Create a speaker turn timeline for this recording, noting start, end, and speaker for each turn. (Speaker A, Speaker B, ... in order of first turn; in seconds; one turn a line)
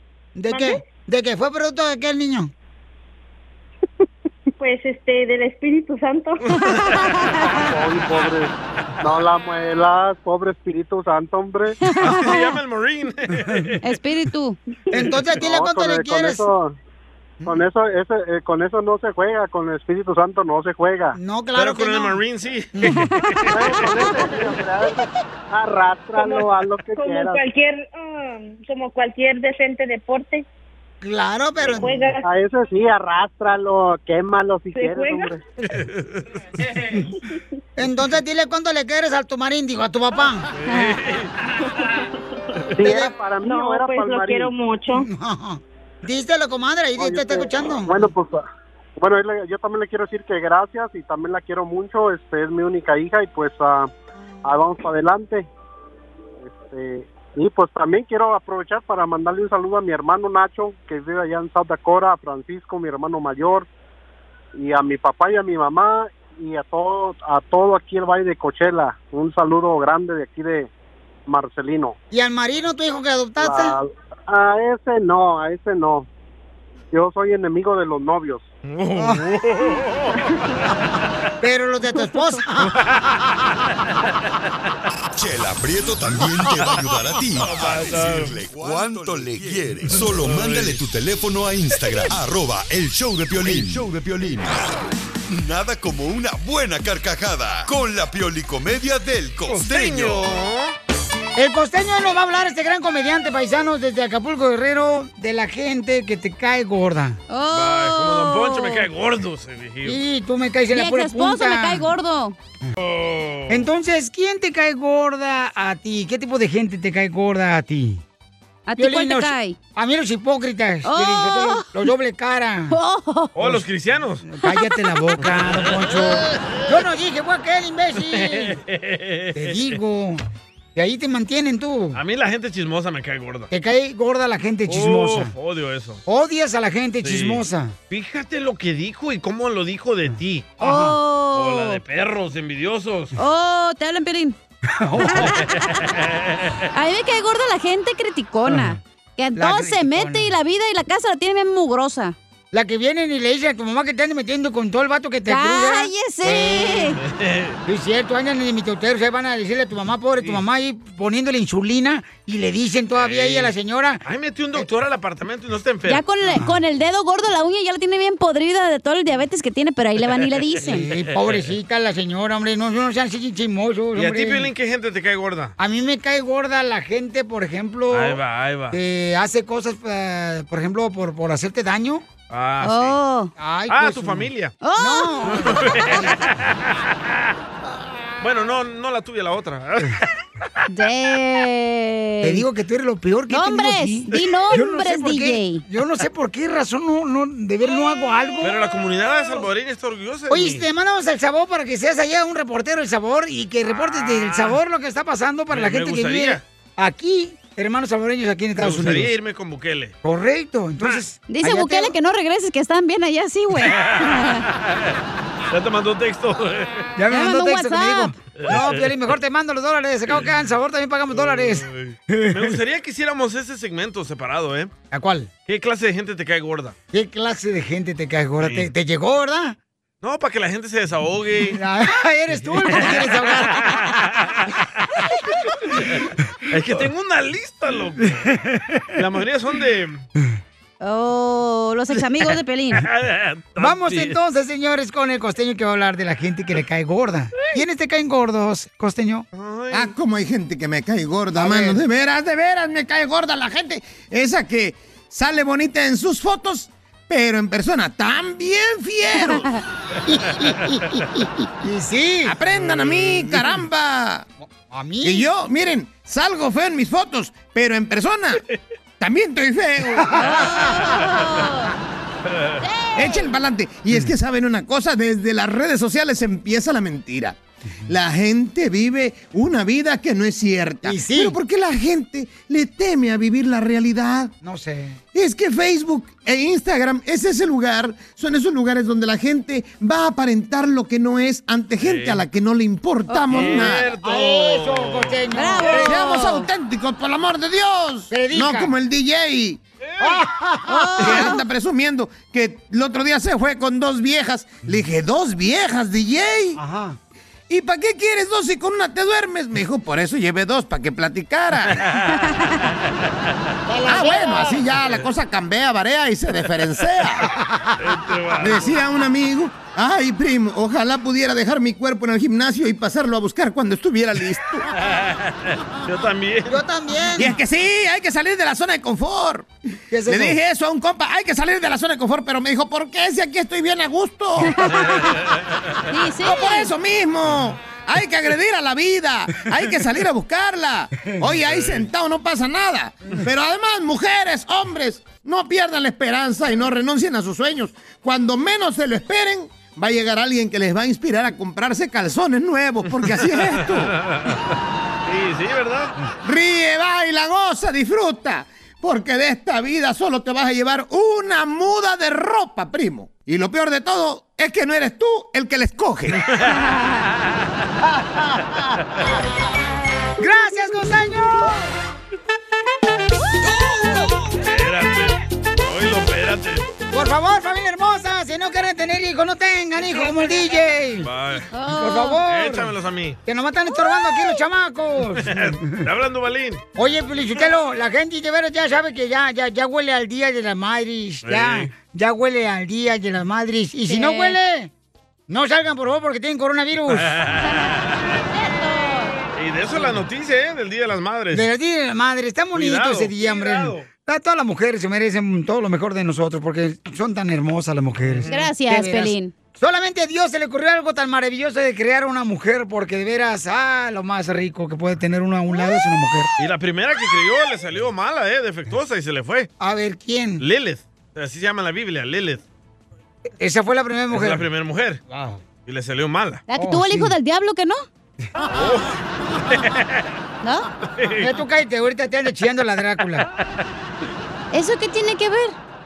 Speaker A: 0.4-2.5
Speaker B: 0.5-0.8
Speaker B: 4.6-6.6
Speaker C: 6.6-7.5
Speaker D: 7.5-11.8
Speaker C: 11.8-12.5
Speaker E: 12.0-13.8
Speaker C: 13.8-14.6
Speaker A: 14.9-16.5
Speaker D: 15.4-16.8
Speaker D: 17.4-21.2
Speaker A: 21.1-22.2
Speaker E: 21.6-23.6
Speaker C: 22.9-23.4
Speaker D: 23.5-27.4
Speaker B: 24.1-24.5
Speaker B: 26.1-30.4
Speaker A: 31.0-32.0
Speaker B: 31.6-32.3
Speaker D: 32.3-35.4
Speaker B: 34.7-35.4
Speaker E: 35.7-36.3
Speaker A: 37.8-40.5
Speaker E: 40.6-41.3
Speaker C: 40.7-41.0
Speaker B: 41.7-42.1
Speaker D: 42.8-44.5
Speaker A: 42.8-43.1
Speaker B: 42.9-45.1
Speaker A: 44.9-48.1
Speaker D: 47.0-48.4
Speaker D: 49.0-53.9
Speaker D: 54.4-55.5
Speaker D: 56.4-63.7
Speaker D: 64.5-70.7
Speaker D: 71.3-72.0
Speaker A: 72.1-73.8
Speaker D: 73.4-76.1
Speaker D: 76.9-78.5
Speaker E: 78.7-80.3
Speaker A: 79.0-79.2
Speaker A: 81.4-82.8
Speaker E: 82.8-83.0
Speaker F: 85.1-94.7
Speaker A: 86.5-86.8
Speaker E: 87.4-88.8
Speaker E: 89.4-90.8
Speaker F: 95.3-100.3
Speaker E: 99.5-100.8
Speaker A: 101.4-107.2
Speaker C: 107.3-108.9
Speaker E: 107.5-110.0
Speaker A: 109.8-111.9
Speaker C: 110.7-112.3
Speaker E: 112.8-113.7
Speaker A: 113.5-118.0
Speaker C: 118.7-119.6
Speaker A: 118.8-122.8
Speaker C: 120.8-121.7
Speaker C: 122.7-123.3
Speaker E: 123.4-124.2
Speaker A: 124.2-128.6
Speaker C: 124.5-125.0
Speaker E: 125.3-126.0
Speaker E: 128.1-129.8
Speaker A: 129.3-130.2
Speaker A: 130.8-132.0
Speaker E: 131.9-133.5
Speaker A: 133.5-135.3
Speaker E: 134.7-136.0
Speaker A: 136.1-137.8
Speaker E: 137.0-140.6
Speaker A: 140.6-141.0
Speaker C: 140.6-141.8
Speaker E: 141.3-143.1
Speaker C: 143.2-144.4
Speaker A: 144.7-145.4
Speaker C: 145.1-145.4
Speaker E: 145.2-146.6
Speaker C: 146.7-152.2
Speaker A: 148.5-148.8
Speaker A: 149.4-150.3
Speaker A: 152.5-157.0
Speaker C: 155.3-157.0
Speaker E: 157.0-157.6
Speaker A: 157.7-164.0
Speaker E: 163.0-163.5
Speaker E: 164.1-166.0
Speaker C: 165.9-170.9
Speaker A: 166.3-166.6
Speaker A: 170.7-174.5
Speaker E: 174.0-175.5
Speaker A: 175.6-178.2
Speaker E: 177.9-178.8
Speaker A: 178.7-182.1
Speaker E: 182.3-183.0
Speaker C: 182.6-183.3
Speaker A: 183.4-186.1
Speaker E: 183.7-184.6
Speaker C: 184.6-185.7
Speaker E: 185.3-186.9
Speaker A: 187.7-188.1
Speaker E: 188.2-190.1
Speaker C: 190.7-192.4
Speaker A: 192.2-198.6
Speaker C: 193.3-195.6
Speaker E: 198.4-200.7
Speaker A: 200.3-209.1
Speaker E: 203.8-204.6
Speaker E: 205.5-206.4
Speaker E: 208.6-209.9
Speaker A: 210.0-211.9
Speaker C: 211.3-214.4
Speaker E: 213.7-214.9
Speaker E: 215.5-216.9
Speaker A: 217.0-222.6
Speaker C: 217.1-218.1
Speaker E: 218.4-219.0
Speaker E: 221.1-224.7
Speaker A: 224.9-225.3
Speaker E: 225.5-226.8
Speaker A: 226.9-229.6
Speaker E: 228.4-228.7
Speaker E: 230.0-231.6
Speaker A: 231.5-233.8
Speaker E: 232.6-234.6
Speaker E: 235.8-236.0
Speaker E: 236.5-238.3
Speaker A: 238.3-238.8
Speaker E: 238.9-240.0
Speaker C: 240.8-242.8
Speaker E: 242.8-244.2
Speaker A: 243.6-249.3
Speaker E: 249.3-249.9
Speaker G: 249.7-259.5
Speaker A: 251.3-251.8
Speaker A: 260.1-262.4
Speaker G: 262.3-264.3
Speaker E: 262.5-262.9
Speaker A: 264.5-265.3
Speaker G: 265.0-268.4
Speaker G: 269.0-270.3
Speaker A: 270.0-270.7
Speaker C: 270.2-271.7
Speaker C: 272.6-273.3
Speaker G: 273.0-284.3
Speaker A: 280.8-281.4
Speaker A: 284.4-285.0
Speaker G: 285.1-293.9
Speaker E: 291.8-292.2
Speaker E: 293.3-295.2
Speaker A: 294.0-296.0
Speaker C: 295.4-296.5
Speaker G: 295.8-299.6
Speaker A: 298.1-298.7
Speaker E: 299.9-300.2
Speaker A: 300.0-301.3
Speaker C: 300.7-301.4
Speaker G: 301.0-306.6
Speaker A: 306.6-307.0
Speaker G: 307.5-311.8
Speaker E: 311.9-312.2
Speaker C: 312.3-312.5
Speaker A: 313.7-314.7
Speaker G: 313.9-317.3
Speaker A: 317.3-317.8
Speaker E: 317.8-318.8
Speaker G: 318.4-324.7
Speaker E: 324.8-326.6
Speaker A: 326.5-327.4
Speaker G: 327.2-329.5
Speaker A: 329.9-330.4
Speaker G: 330.1-334.6
Speaker C: 334.6-335.1
Speaker C: 335.9-336.7
Speaker G: 336.2-353.9
Speaker E: 341.4-341.9
Speaker E: 353.5-354.6
Speaker E: 355.1-355.9
Speaker G: 356.2-366.2
Speaker A: 370.2-371.7
Speaker E: 374.3-376.7
Speaker A: 376.9-381.1
Speaker E: 381.0-381.5
Speaker C: 381.5-382.2
Speaker A: 381.7-382.7
Speaker E: 382.2-383.2
Speaker A: 383.3-385.8
Speaker E: 385.2-386.6
Speaker A: 386.8-394.7
Speaker E: 391.2-391.7
Speaker C: 393.9-394.4
Speaker A: 395.3-397.1
Speaker E: 396.9-398.1
Speaker C: 397.4-399.2
Speaker E: 399.4-401.5
Speaker A: 401.3-416.3
Speaker E: 402.5-403.9
Speaker E: 408.0-408.4
Speaker C: 408.3-409.3
Speaker E: 416.4-419.5
Speaker A: 419.6-420.4
Speaker E: 420.4-422.4
Speaker A: 423.4-424.4
Speaker E: 424.1-425.0
Speaker A: 425.1-425.4
Speaker E: 425.7-426.4
Speaker C: 426.5-427.8
Speaker A: 426.6-427.1
Speaker E: 428.5-428.9
Speaker E: 429.5-430.1
Speaker C: 430.4-430.7
Speaker E: 430.9-431.3
Speaker A: 431.2-433.3
Speaker C: 434.5-435.6